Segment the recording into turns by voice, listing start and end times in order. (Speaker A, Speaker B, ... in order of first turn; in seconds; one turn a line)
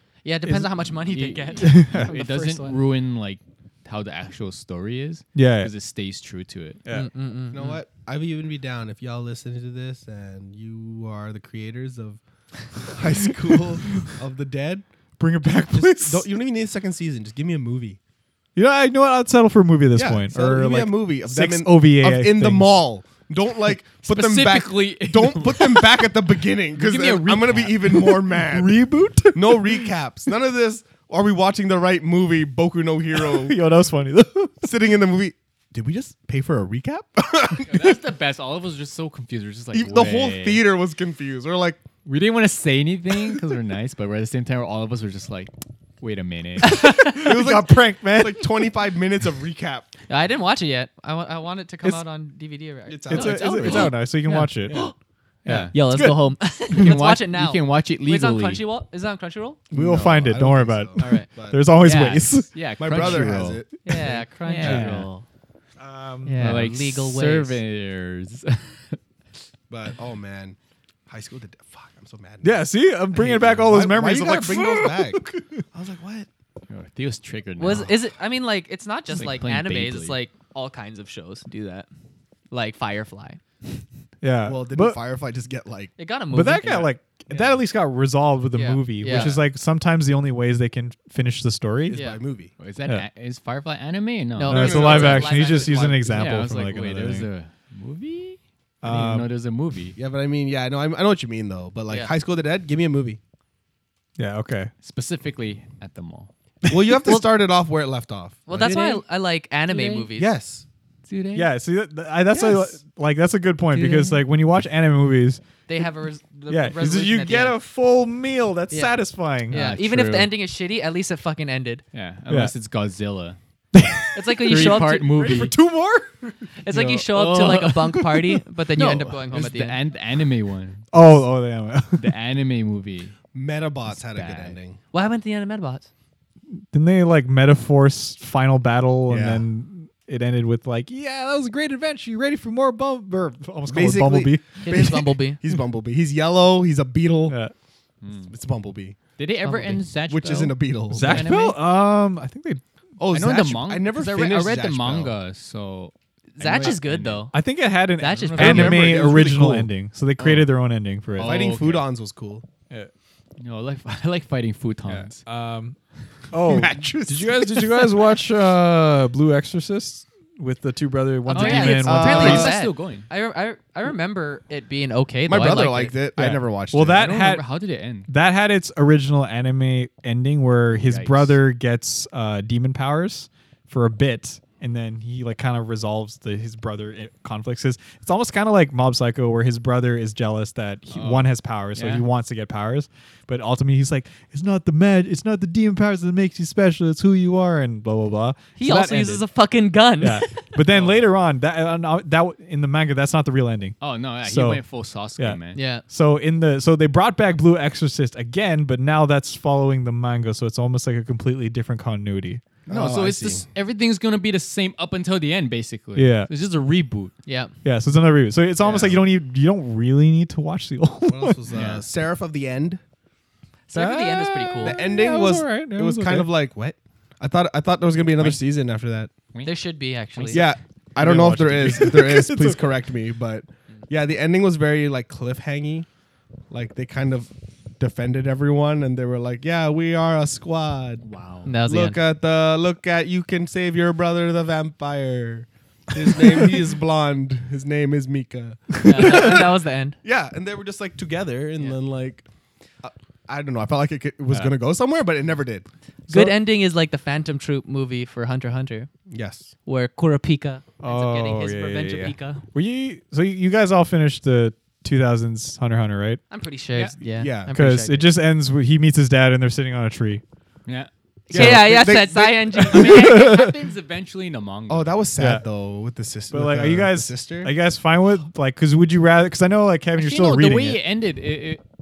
Speaker A: 0.2-2.8
Speaker B: 0.5-0.8
Speaker C: 1.1-6.8
Speaker B: 1.6-2.1
Speaker B: 5.3-5.7
Speaker B: 6.8-7.1
Speaker A: 6.9-7.6
Speaker D: 7.5-12.2
Speaker D: 12.8-14.9
Speaker B: 13.2-14.1
Speaker B: 15.2-16.3
Speaker D: 15.7-18.0
Speaker B: 18.6-22.7
Speaker D: 19.9-28.8
Speaker C: 24.0-26.2
Speaker C: 26.7-28.2
Speaker B: 27.9-29.9
Speaker D: 29.3-33.6
Speaker B: 33.1-34.7
Speaker D: 34.6-38.0
Speaker C: 37.7-40.6
Speaker D: 39.7-41.8
Speaker C: 42.1-46.8
Speaker A: 46.6-47.4
Speaker B: 46.6-48.7
Speaker D: 47.1-49.9
Speaker A: 50.1-54.9
Speaker D: 52.9-54.0
Speaker B: 53.1-54.8
Speaker C: 55.5-55.7
Speaker B: 55.5-56.2
Speaker A: 55.7-59.6
Speaker C: 56.7-58.6
Speaker D: 59.7-61.6
Speaker B: 59.7-63.3
Speaker A: 61.0-61.3
Speaker C: 61.8-63.6
Speaker D: 62.8-64.3
Speaker A: 63.9-65.2
Speaker C: 64.4-65.1
Speaker B: 64.6-65.1
Speaker B: 65.8-66.6
Speaker A: 66.2-67.6
Speaker C: 66.4-69.0
Speaker D: 69.7-76.3
Speaker B: 72.4-75.6
Speaker C: 76.7-78.0
Speaker A: 77.6-81.9
Speaker C: 79.1-80.2
Speaker A: 82.5-83.4
Speaker B: 84.2-85.0
Speaker D: 84.5-85.9
Speaker A: 86.0-87.0
Speaker B: 86.3-92.0
Speaker A: 88.5-89.4
Speaker D: 91.9-92.5
Speaker A: 91.9-92.2
Speaker C: 92.6-95.2
Speaker A: 94.4-96.3
Speaker B: 94.5-97.3
Speaker D: 94.5-95.5
Speaker C: 96.1-100.0
Speaker B: 98.8-99.3
Speaker D: 100.0-103.2
Speaker B: 104.2-104.7
Speaker C: 104.8-106.3
Speaker D: 106.7-108.8
Speaker A: 108.5-110.3
Speaker C: 108.5-109.0
Speaker C: 109.7-110.1
Speaker D: 110.2-110.7
Speaker C: 111.1-111.5
Speaker B: 111.3-115.4
Speaker A: 112.3-112.8
Speaker A: 113.7-114.2
Speaker A: 115.7-117.6
Speaker B: 116.5-119.6
Speaker A: 118.7-121.8
Speaker C: 119.5-120.3
Speaker C: 121.9-123.4
Speaker B: 123.7-126.9
Speaker A: 124.1-125.2
Speaker C: 124.5-125.5
Speaker A: 126.6-129.8
Speaker C: 127.0-128.2
Speaker C: 128.8-131.2
Speaker B: 130.9-132.1
Speaker C: 132.0-133.2
Speaker D: 133.3-134.8
Speaker C: 133.9-134.6
Speaker A: 134.9-135.9
Speaker B: 136.5-144.9
Speaker D: 139.1-139.4
Speaker D: 143.7-147.4
Speaker A: 144.7-145.4
Speaker B: 147.3-147.5
Speaker C: 148.0-148.3
Speaker D: 148.3-149.0
Speaker C: 149.2-151.6
Speaker A: 149.4-149.8
Speaker D: 150.1-151.3
Speaker B: 150.9-152.6
Speaker D: 153.0-155.1
Speaker C: 153.1-157.3
Speaker A: 156.4-157.3
Speaker B: 157.3-161.5
Speaker A: 158.0-158.8
Speaker C: 158.2-158.9
Speaker D: 158.4-159.7
Speaker C: 160.2-160.5
Speaker C: 161.1-161.9
Speaker D: 161.2-162.4
Speaker C: 163.4-165.2
Speaker B: 164.9-165.8
Speaker B: 166.3-172.5
Speaker D: 166.4-167.8
Speaker A: 171.3-175.9
Speaker C: 171.3-173.1
Speaker D: 171.8-172.6
Speaker D: 175.3-177.1
Speaker B: 176.2-177.4
Speaker C: 176.9-178.1
Speaker B: 178.1-199.2
Speaker C: 180.8-181.4
Speaker C: 190.9-192.1
Speaker A: 198.6-200.3
Speaker B: 200.0-204.6
Speaker C: 200.6-201.0
Speaker C: 203.8-205.6
Speaker B: 205.2-212.4
Speaker A: 205.6-205.8
Speaker D: 212.7-213.5
Speaker C: 212.7-217.1
Speaker B: 216.0-216.3
Speaker A: 217.3-217.5
Speaker B: 217.6-221.4
Speaker C: 218.6-219.0
Speaker D: 221.1-222.8
Speaker C: 221.5-221.8
Speaker A: 223.7-224.8
Speaker B: 223.7-226.3
Speaker D: 224.6-229.1
Speaker A: 229.4-230.5
Speaker C: 230.2-230.5
Speaker D: 230.3-235.9
Speaker B: 231.0-232.7
Speaker D: 236.5-241.1
Speaker C: 241.0-241.5
Speaker A: 241.5-242.0
Speaker D: 241.7-252.2
Speaker A: 248.8-250.0
Speaker D: 252.8-255.7
Speaker A: 256.1-258.9
Speaker B: 256.1-256.4
Speaker D: 259.1-259.5
Speaker A: 259.7-262.4
Speaker B: 260.8-266.2
Speaker A: 266.3-268.1
Speaker D: 267.1-267.5
Speaker B: 267.5-270.2
Speaker A: 271.3-273.5
Speaker B: 271.3-271.9
Speaker D: 271.3-273.1
Speaker B: 272.6-273.6
Speaker C: 272.6-274.9
Speaker D: 274.7-277.5
Speaker B: 275.2-275.4
Speaker B: 276.3-280.8
Speaker C: 280.0-281.6